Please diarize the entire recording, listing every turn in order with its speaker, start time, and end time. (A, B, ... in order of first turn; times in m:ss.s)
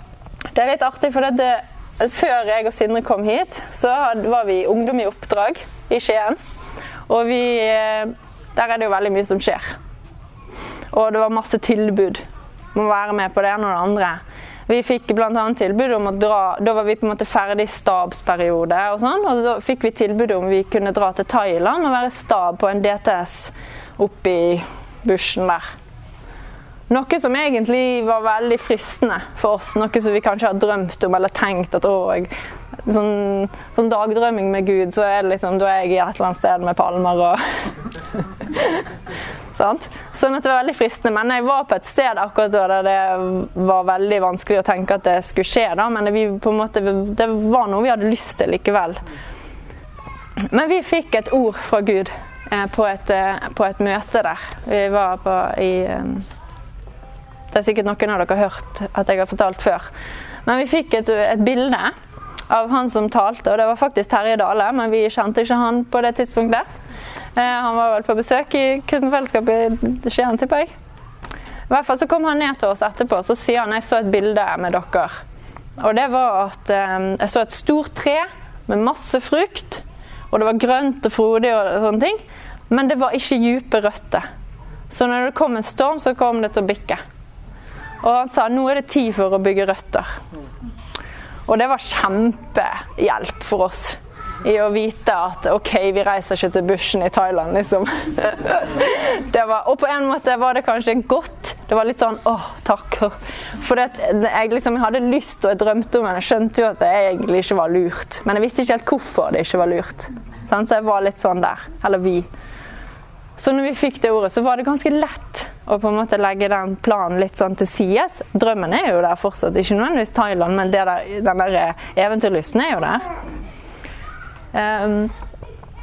0:00.5-0:06.4 A
0:07.1-0:09.7 A
0:10.9-0:12.2 A
0:12.7-0:25.7 A
0:26.9-0:32.3 A
0:32.8-0:37.4 A
0:38.5-0:38.8 A
0:39.5-0:49.0 A
0:50.5-0:56.3 A
0:57.5-0:59.8 A
1:00.5-1:01.9 A
1:02.5-1:06.6 A
1:07.4-1:10.7 A
1:11.7-1:15.1 A
1:15.8-1:24.2 A
1:24.9-1:27.0 A
1:28.0-1:30.1 A
1:31.5-1:52.3 A
1:53.4-2:03.1 A
2:04.5-2:05.1 A